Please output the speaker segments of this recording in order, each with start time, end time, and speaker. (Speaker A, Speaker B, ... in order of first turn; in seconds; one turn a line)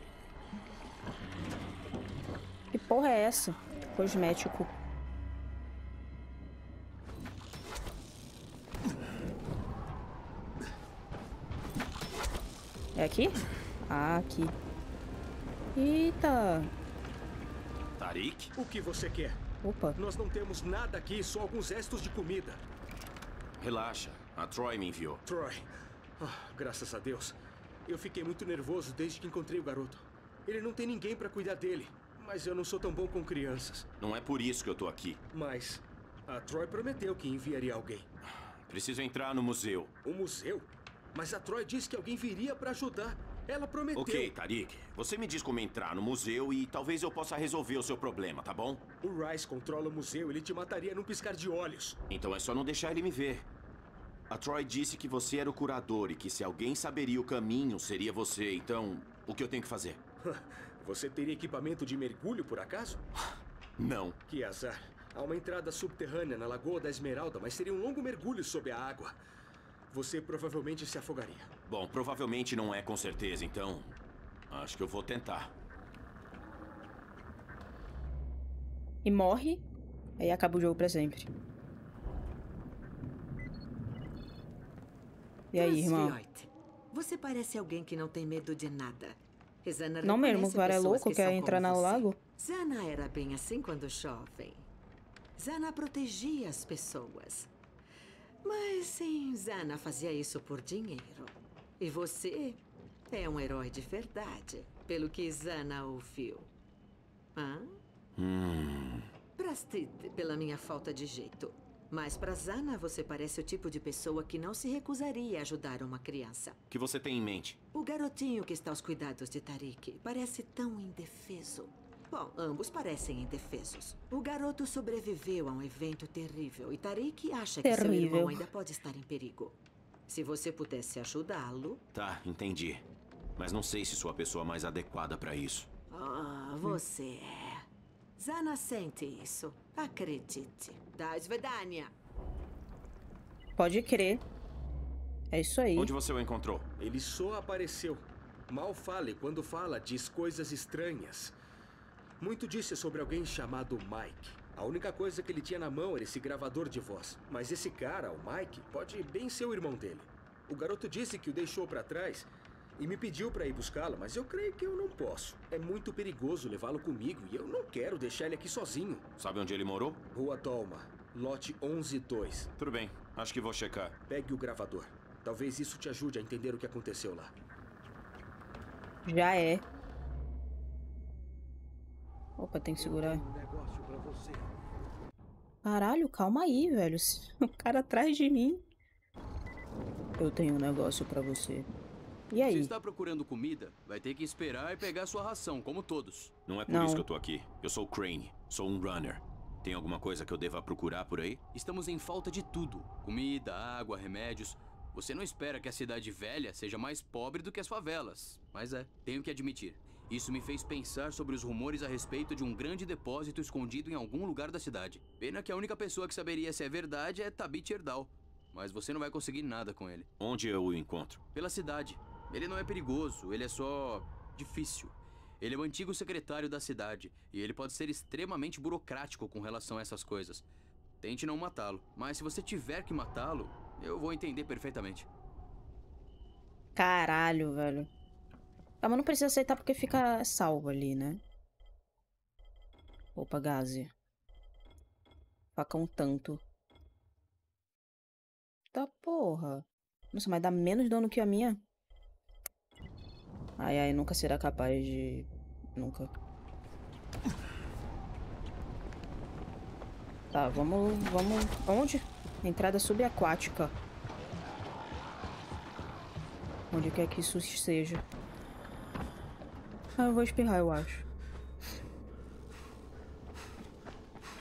Speaker A: 2.7-4.7
Speaker A: 12.9-14.5
Speaker A: 15.7-16.7
Speaker B: 18.0-18.5
Speaker C: 18.6-19.4
Speaker A: 19.6-20.0
Speaker C: 19.9-22.6
Speaker B: 23.6-25.2
Speaker C: 25.2-33.9
Speaker B: 34.0-35.2
Speaker C: 35.3-38.1
Speaker B: 38.4-39.9
Speaker C: 40.0-44.3
Speaker B: 43.9-48.9
Speaker C: 49.0-52.0
Speaker B: 52.1-53.5
Speaker B: 54.3-60.0
Speaker C: 60.2-63.0
Speaker B: 63.8-64.2
Speaker C: 64.3-69.2
Speaker C: 69.9-71.5
Speaker B: 71.7-74.0
Speaker B: 74.5-75.5
Speaker A: 79.0-79.7
Speaker A: 80.2-81.3
Speaker A: 85.5-86.2
Speaker D: 85.5-94.7
Speaker A: 90.0-92.2
Speaker D: 95.4-97.5
Speaker D: 98.4-106.5
Speaker D: 107.3-107.8
Speaker B: 108.2-109.1
Speaker D: 109.4-116.6
Speaker B: 116.7-117.6
Speaker D: 117.7-131.8
Speaker A: 127.6-128.4
Speaker B: 131.9-132.8
Speaker B: 133.4-135.7
Speaker D: 135.9-141.9
Speaker A: 143.6-144.2
Speaker A: 145.3-145.9
Speaker B: 145.8-146.7
Speaker C: 146.8-151.3
Speaker C: 152.2-169.1
Speaker B: 169.2-170.0
Speaker C: 170.1-172.5
Speaker B: 172.6-174.0
Speaker C: 174.1-177.3
Speaker A: 179.0-179.6
Speaker A: 182.4-183.2
Speaker C: 182.8-184.5
Speaker A: 185.6-188.6
Speaker A: 190.2-191.7
Speaker A: 192.3-192.7
Speaker E: 192.4-196.3
Speaker B: 196.5-201.4
Speaker A: 196.7-197.0
Speaker E: 201.5-220.1
Speaker B: 220.2-221.2
Speaker E: 221.3-230.4
Speaker E: 231.0-235.1
Speaker A: 236.8-237.9
Speaker A: 238.8-241.2
Speaker A: 243.2-243.9
Speaker A: 245.6-246.4
Speaker A: 248.7-251.6
Speaker A: 253.6-256.1
Speaker A: 260.3-263.7
Speaker A: 266.7-268.0
Speaker A: 270.0-271.1